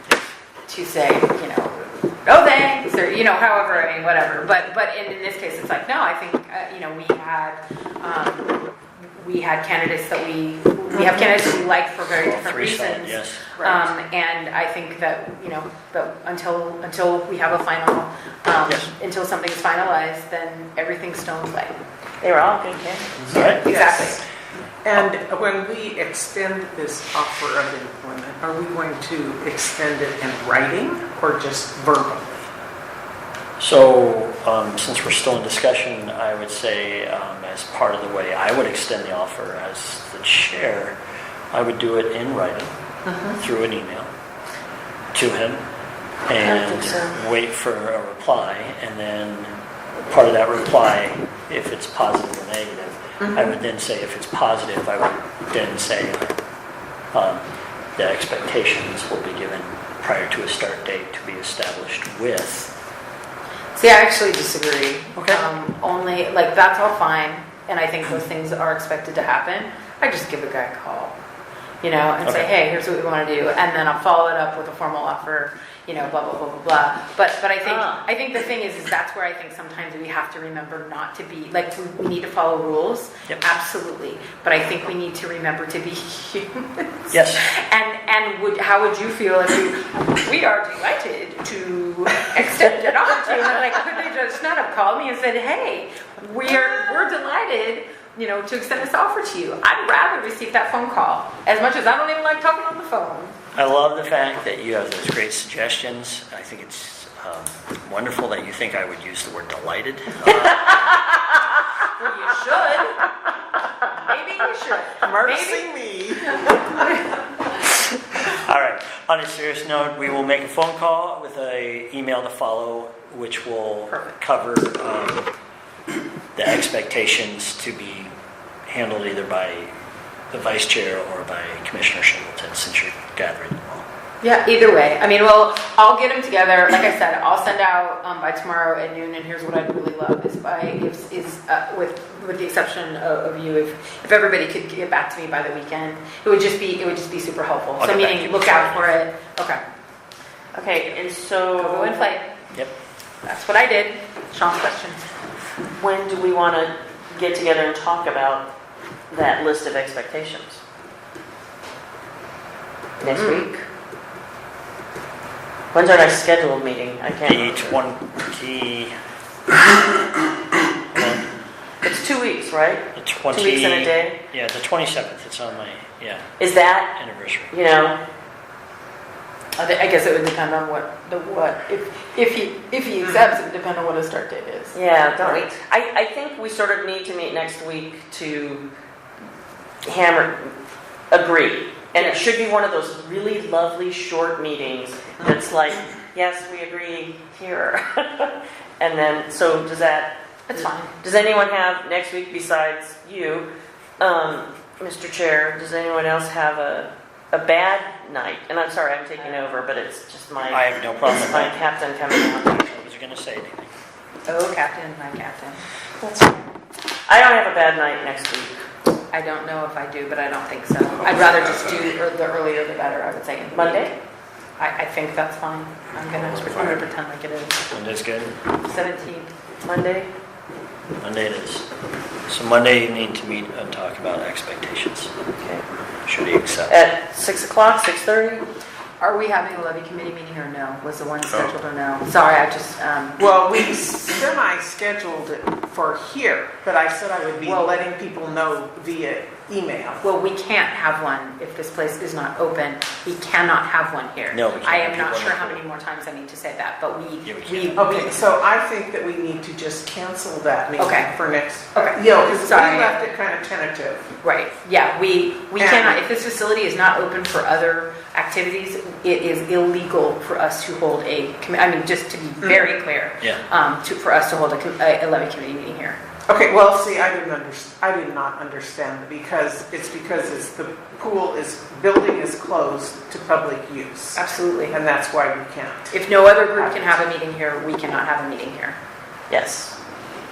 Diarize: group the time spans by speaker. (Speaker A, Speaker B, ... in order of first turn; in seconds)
Speaker A: 0.7-21.8, 23.3-24.2, 63.7-71.2, 71.8-103.4, 112.0-113.0, 113.9-115.7, 123.9-124.2, 134.2-149.6, 151.6-152.3, 153.2-155.0, 163.1-163.5, 179.6-185.5, 191.9-192.3, 200.5-200.9, 214.3-215.6, 219.1-224.0, 224.6-227.6, 228.6-229.3, 239.0-243.2, 247.4-247.8, 250.0-258.2, 260.8-261.1, 261.7-263.0, 264.2-276.0, 284.1-284.8, 285.9-288.8
Speaker B: 12.1-13.5, 23.2-23.6, 33.6-41.0, 41.5-42.7, 43.3-44.1, 45.1-45.6, 46.3-49.5, 50.1-56.4, 57.1-57.4, 58.0-62.7, 65.2-65.4, 72.2-72.5, 87.1-87.5, 103.5-111.0, 117.6-125.3, 126.4-128.1, 128.7-129.7, 130.3-133.9, 147.8-148.9, 167.2-168.9, 169.9-170.3, 170.9-171.3, 172.9-176.3, 176.9-177.5, 210.5-211.7, 212.5-213.7, 226.5-226.8, 227.7-228.4, 231.0-231.7, 232.3-235.1, 236.1-236.8, 254.3-255.6, 257.2-257.9
Speaker C: 13.6-13.8, 23.4-24.2, 24.8-32.5, 43.1-43.4, 53.2-53.5, 115.0-116.7, 243.2-250.1, 257.8-264.1, 265.6-266.0, 276.3-285.9
Speaker D: 22.2-23.1, 46.4-47.2, 77.6-78.0, 150.5-152.2, 155.8-158.5, 159.1-160.6, 163.0-163.6, 165.7-167.8, 171.8-174.2, 176.4-177.0, 177.5-178.0, 184.7-188.7, 189.8-190.6, 191.1-212.7, 216.0-216.5, 217.1-218.6, 223.5-223.9, 229.6-230.1, 235.4-235.7, 236.7-238.4, 289.3-289.7